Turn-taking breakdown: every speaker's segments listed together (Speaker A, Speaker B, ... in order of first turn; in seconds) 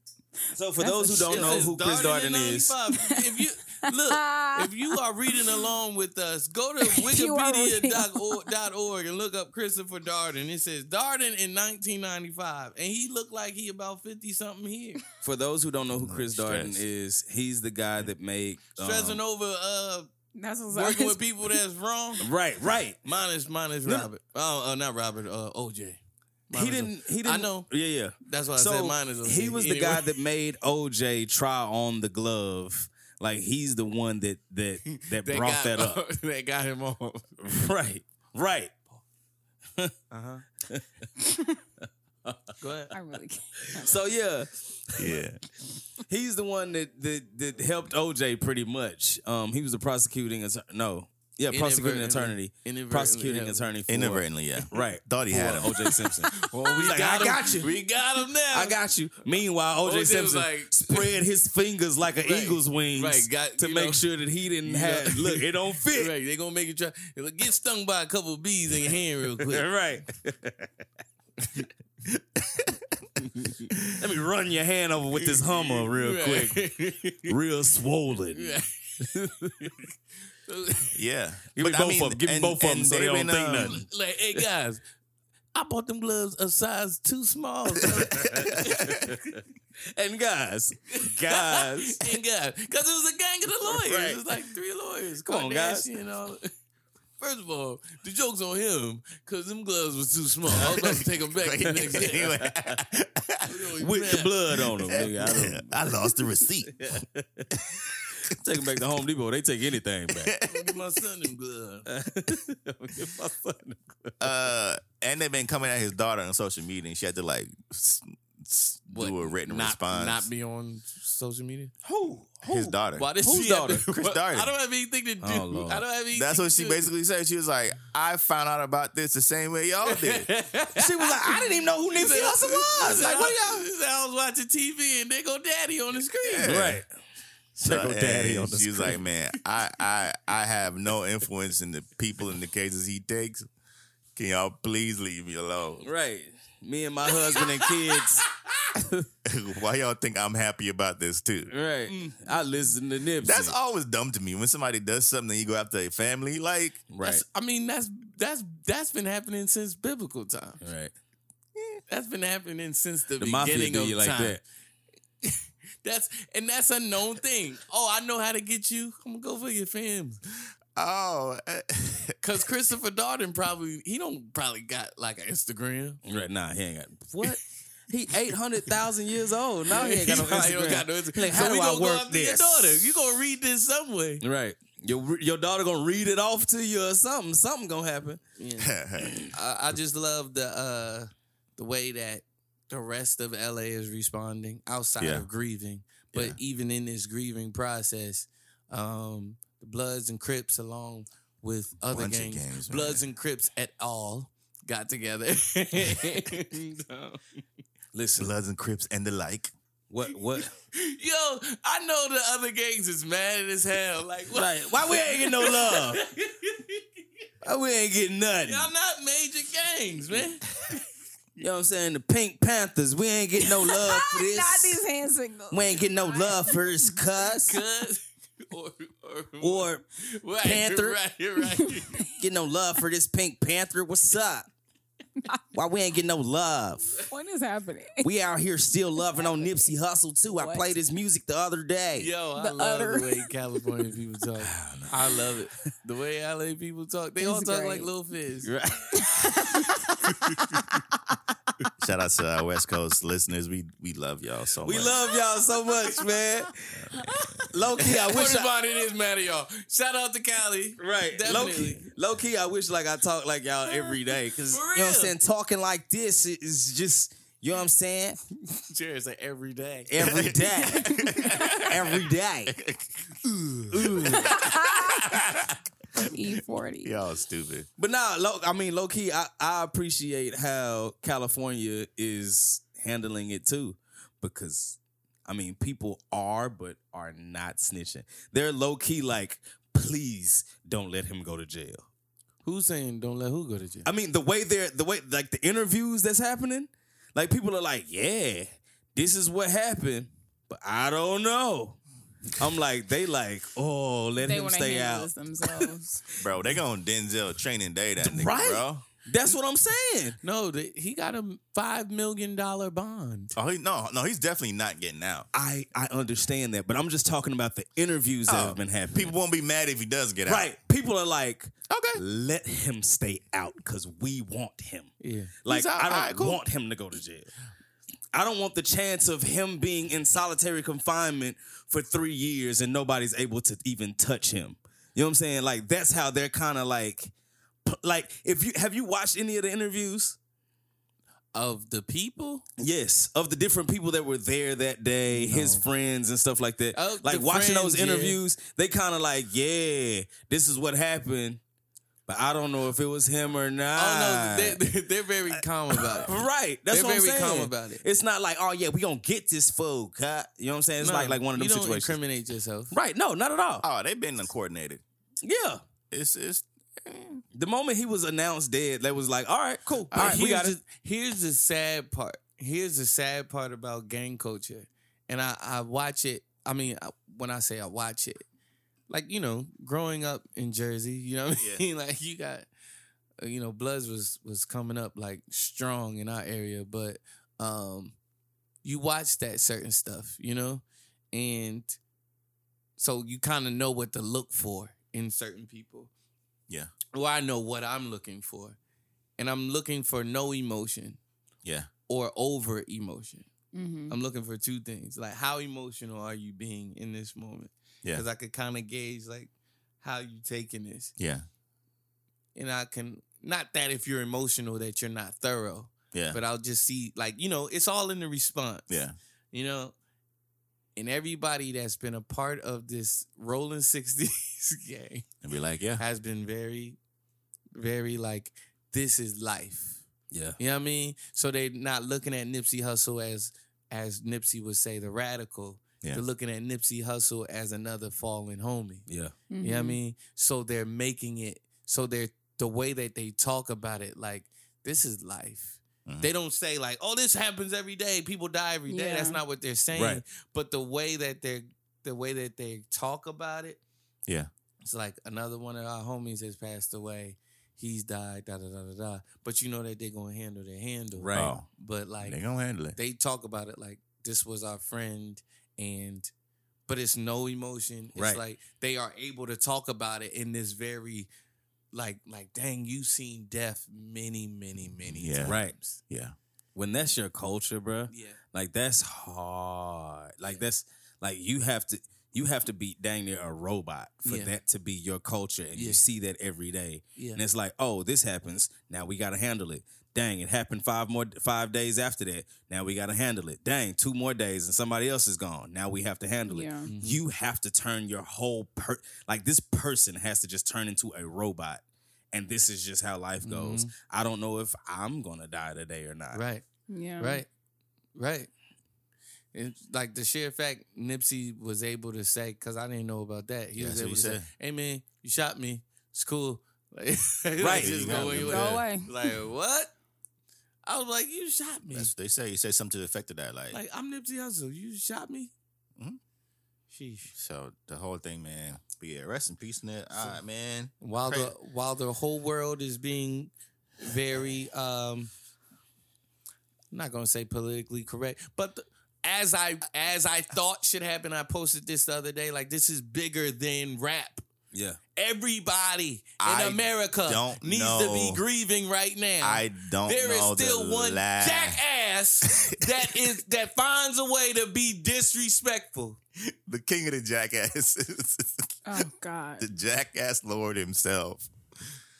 Speaker A: 0.5-2.7, 15.2-19.2, 22.2-23.0, 26.5-36.0, 37.4-38.7, 41.8-42.5, 43.7-45.2, 46.1-57.8, 58.5-66.1, 69.4-70.7, 74.0-76.6, 77.2-78.6, 81.5-83.8, 89.9-92.2, 93.6-94.3, 95.3-95.9, 103.8-106.1, 106.8-107.5, 108.2-110.3, 111.9-114.2, 121.8-123.9, 125.2-125.8, 130.7-133.6, 136.4-136.9, 137.6-139.0, 145.8-149.1, 151.5-153.6, 156.9-157.2, 160.6-160.9, 163.2-164.4, 176.0-182.8, 184.2-188.2, 189.0-189.3, 207.9-208.3, 209.9-210.5, 214.3-216.0, 217.4-218.7, 221.4-224.8, 225.5-227.6, 229.4-229.8, 230.4-231.0, 232.2-234.5, 235.5-237.0, 238.0-242.1, 244.5-244.8, 248.4-249.4, 254.6-256.9, 257.5-258.5, 260.8-268.2, 269.9-271.1, 271.6-272.6, 273.7-274.4, 277.8-291.9, 293.8-301.8, 302.4-305.7, 308.0-310.2, 315.3-319.1, 320.3-327.3, 328.1-337.1, 337.6-340.2, 342.6-351.4, 352.1-354.6, 355.7-362.0, 362.7-363.6, 365.2-365.6, 367.3-370.6, 430.1-430.4, 438.9-439.1, 449.7-450.0, 460.9-461.3, 467.9-468.2, 475.2-475.6, 476.5-506.2, 517.4-518.3, 544.5-544.8
Speaker B: 0.8-1.5, 3.0-3.3, 4.1-5.4, 6.9-8.5, 20.3-21.5, 42.9-43.8, 223.7-226.7, 237.1-238.1, 239.1-239.7, 240.4-240.7, 242.4-243.2, 247.2-247.9, 249.0-249.7, 274.4-275.0, 276.0-276.9, 304.2-306.0, 403.5-403.9, 439.3-439.8, 448.7-449.2, 496.3-496.7, 506.7-507.2, 518.2-518.8, 558.6-559.5
Speaker C: 1.3-15.0, 18.8-20.1, 20.7-22.3, 23.0-27.7, 28.2-30.1, 34.9-37.6, 40.1-40.4, 42.6-42.9, 51.5-53.7, 55.7-59.3, 59.8-61.2, 62.2-64.0, 64.6-69.6, 75.2-77.3, 78.3-79.8, 80.5-80.9, 83.4-84.8, 85.5-89.1, 91.1-96.5, 97.2-102.5, 103.4-104.6, 110.4-111.8, 118.9-121.7, 123.0-126.9, 129.8-136.6, 147.3-147.9, 157.0-160.6, 161.9-164.4, 165.2-170.2, 172.2-176.0, 179.7-184.2, 188.4-188.7, 189.3-207.4, 210.3-216.8, 218.4-220.8, 227.4-232.0, 242.0-248.5, 257.8-261.9, 264.5-265.1, 268.5-270.5, 273.4-274.3, 292.4-293.9, 310.2-313.3, 325.0-325.3, 341.3-342.4, 345.1-345.6, 346.8-348.2, 353.8-357.8, 360.8-362.7, 369.9-378.2, 378.9-382.5, 383.2-387.9, 388.6-391.8, 392.8-395.9, 396.9-398.6, 399.2-401.0, 401.9-403.3, 403.9-410.9, 412.3-418.7, 419.3-419.7, 420.8-425.1, 425.8-426.8, 427.5-429.8, 430.4-438.9, 439.4-453.6, 454.6-462.2, 462.8-466.1, 466.7-471.1, 471.7-475.8, 477.9-478.2, 484.0-484.3, 485.5-485.8, 496.7-497.0, 503.2-503.7, 506.1-506.4, 507.0-507.3, 507.9-508.3, 509.3-519.7, 520.6-521.9, 523.5-525.3, 526.7-527.1, 530.8-535.1, 536.7-544.2, 544.9-556.0
Speaker D: 16.0-16.8, 45.0-45.4, 53.9-55.9, 80.9-83.8, 100.7-103.6, 104.9-106.8, 110.1-110.8, 114.2-120.3, 122.4-123.1, 123.9-124.5, 126.1-130.3, 132.8-133.5, 136.2-136.8, 137.6-143.5, 144.2-145.9, 149.2-151.5, 153.2-156.8, 170.8-172.2, 188.6-189.2, 195.0-195.3, 201.9-203.0, 208.2-209.5, 251.8-255.0, 270.7-271.8, 272.5-273.1, 273.8-274.4, 275.0-275.5, 276.8-277.7, 306.2-308.8, 313.3-315.3, 318.3-320.5, 321.7-322.0, 325.5-326.4, 363.6-364.8, 365.9-367.2, 369.9-370.2, 381.4-381.6, 401.4-401.7, 411.0-411.2, 415.9-416.2, 418.7-418.9, 425.2-425.8, 445.9-446.1, 461.1-461.5, 462.0-462.8, 474.9-476.1, 513.5-514.3, 517.4-518.6, 521.7-523.6, 527.1-531.3, 546.2-548.2, 549.2-551.6, 556.5-558.8, 559.4-561.3